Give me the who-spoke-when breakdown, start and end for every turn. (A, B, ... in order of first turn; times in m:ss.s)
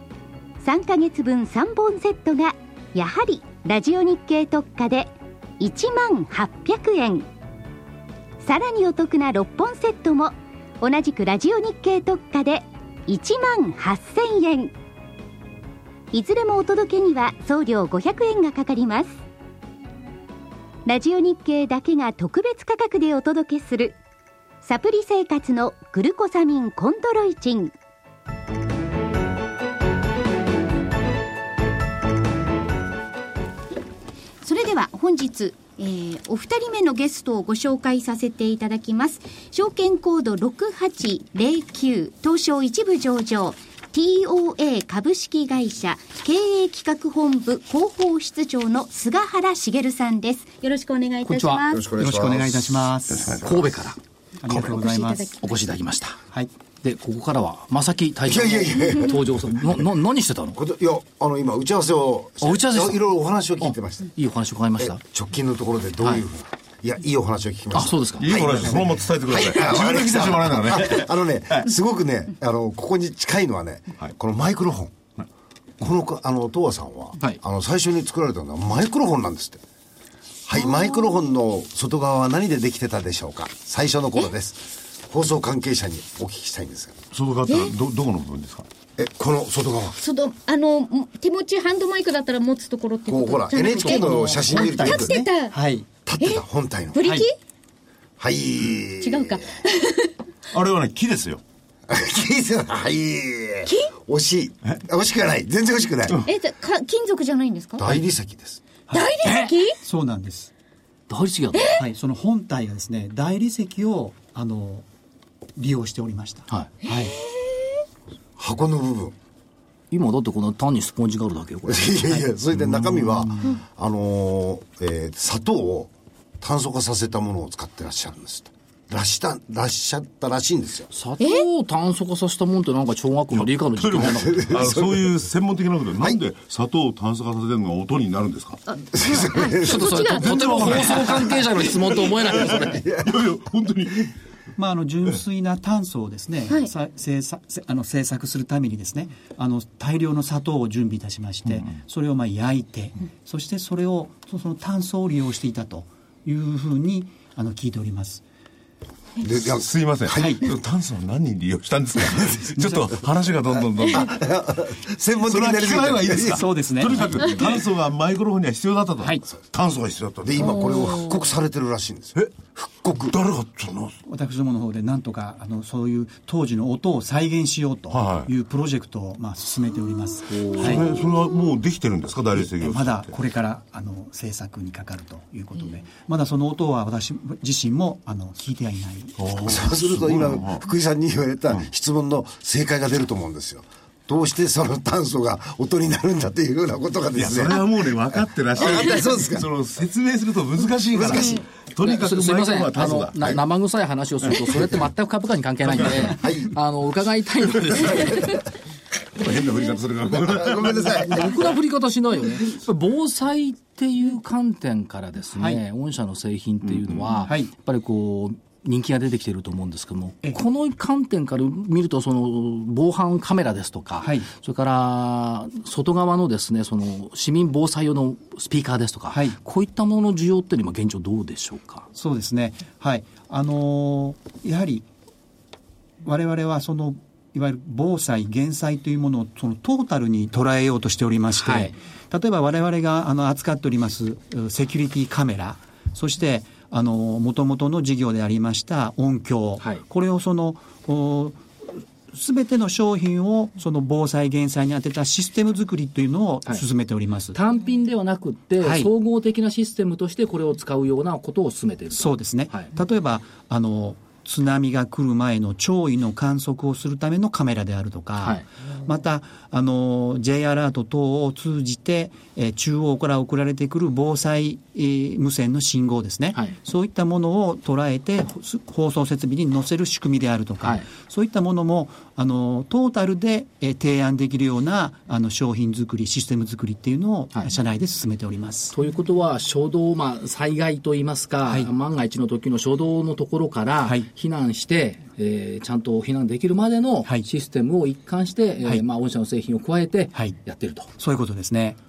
0:00.6-0:07.3 A
0:08.4-0:14.7 A
0:16.1-0:19.2 A
0:20.8-0:24.0 A
0:24.6-0:27.7 A
0:34.4-0:50.6 A
0:50.6-0:51.8 B
0:51.2-0:51.6 C
0:51.6-0:52.8 D
0:52.0-0:53.3 E
0:53.1-0:53.5 F
0:53.4-0:54.0 C
0:54.4-0:55.3 E
0:54.5-0:54.7 C
0:54.5-0:55.5 B
0:55.4-0:56.2 C
0:56.8-1:00.6 C
0:58.2-0:59.2 D
1:00.5-1:04.1 D
1:02.4-1:03.0 C
1:03.6-1:05.0 C
1:04.8-1:15.0 D
1:07.7-1:08.8 C
1:08.2-1:11.7 F
1:15.8-1:19.6 D
1:20.4-1:27.0 D
1:20.6-1:21.1 B
1:27.1-1:28.7 F
1:27.5-1:27.7 B
1:29.0-1:30.0 D
1:30.0-1:35.5 B
1:33.1-1:35.2 D
1:34.1-1:35.9 E
1:36.0-1:37.0 D
1:36.2-1:37.4 B
1:37.0-1:37.2 E
1:38.2-1:39.5 D
1:39.0-1:40.1 B
1:40.5-1:41.4 F
1:41.9-1:46.2 D
1:43.6-1:43.9 B
1:46.2-1:47.8 B
1:47.8-1:48.6 D
1:48.9-1:49.2 E
1:48.9-1:49.8 B
1:49.2-1:49.5 C
1:49.8-1:50.5 E
1:51.1-1:51.7 C
1:51.5-1:51.8 B
1:51.8-1:54.8 E
1:55.6-1:57.2 E
1:56.9-1:57.6 B
1:58.4-1:59.1 D
1:59.9-2:02.2 C
2:01.7-2:10.9 D
2:10.9-2:14.6 C
2:11.2-2:11.4 B
2:13.3-2:18.6 F
2:14.1-2:15.1 D
2:18.7-2:21.0 B
2:18.9-2:20.4 D
2:19.6-2:22.8 C
2:20.2-2:21.7 F
2:22.3-2:24.1 F
2:22.5-2:23.2 D
2:24.6-2:38.2 E
2:39.2-2:40.4 D
2:39.3-2:44.2 F
2:40.2-2:40.4 E
2:42.5-2:42.8 E
2:44.0-2:46.4 D
2:45.2-2:50.6 F
2:46.3-2:47.3 E
2:49.0-2:49.2 E
2:50.2-2:53.2 D
2:50.6-2:51.1 B
2:53.0-2:54.0 F
2:54.1-3:01.0 E
2:57.9-2:58.3 F
3:00.3-3:00.8 C
3:00.5-3:03.1 F
3:02.4-3:09.2 E
3:09.2-3:10.6 F
3:09.4-3:17.7 D
3:17.1-3:23.4 F
3:18.5-3:19.5 D
3:20.9-3:21.4 D
3:21.8-3:28.2 C
3:26.0-3:26.5 D
3:29.2-3:31.3 F
3:30.1-3:31.3 D
3:31.0-3:51.9 C
3:35.3-3:35.6 E
3:37.2-3:37.5 E
3:44.0-3:44.3 E
3:49.1-3:49.4 E
3:51.9-3:54.9 E
3:56.0-4:11.4 E
4:01.4-4:01.7 C
4:12.1-4:17.4 E
4:17.3-4:22.7 C
4:18.6-4:18.9 E
4:21.9-4:48.7 E
4:48.7-5:00.9 C
5:01.0-5:01.8 E